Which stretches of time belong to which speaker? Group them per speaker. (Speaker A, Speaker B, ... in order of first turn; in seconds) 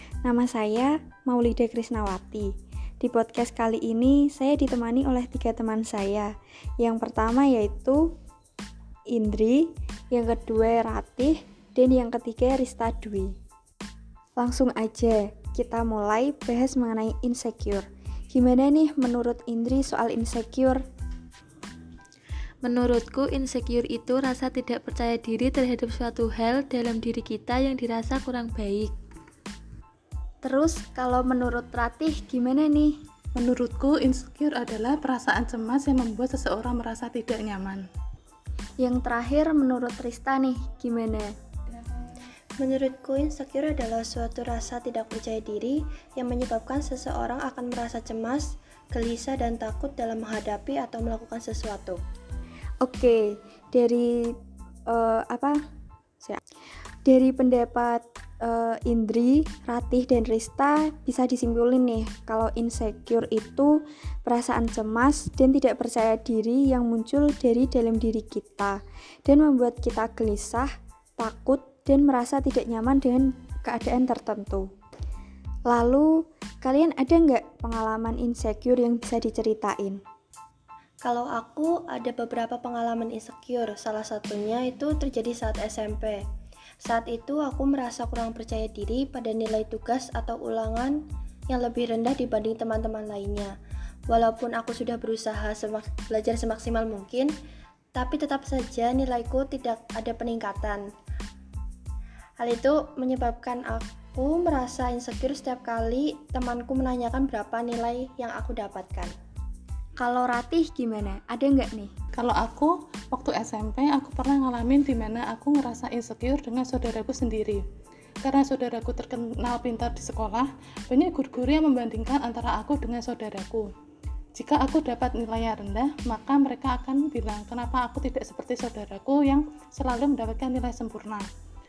Speaker A: 0.2-8.1, 9.1-13.3, 14.4-20.8, 30.4-33.0, 38.8-41.3, 52.8-55.6, 57.0-74.7, 75.7-80.0, 110.0-111.9
Speaker B: 22.6-28.9
Speaker C: 33.4-37.8, 112.1-117.6, 118.2-123.7, 124.3-131.3
Speaker D: 42.6-52.0, 81.0-86.2, 86.8-91.0, 91.5-93.5, 94.1-97.3, 98.0-100.8, 102.4-109.1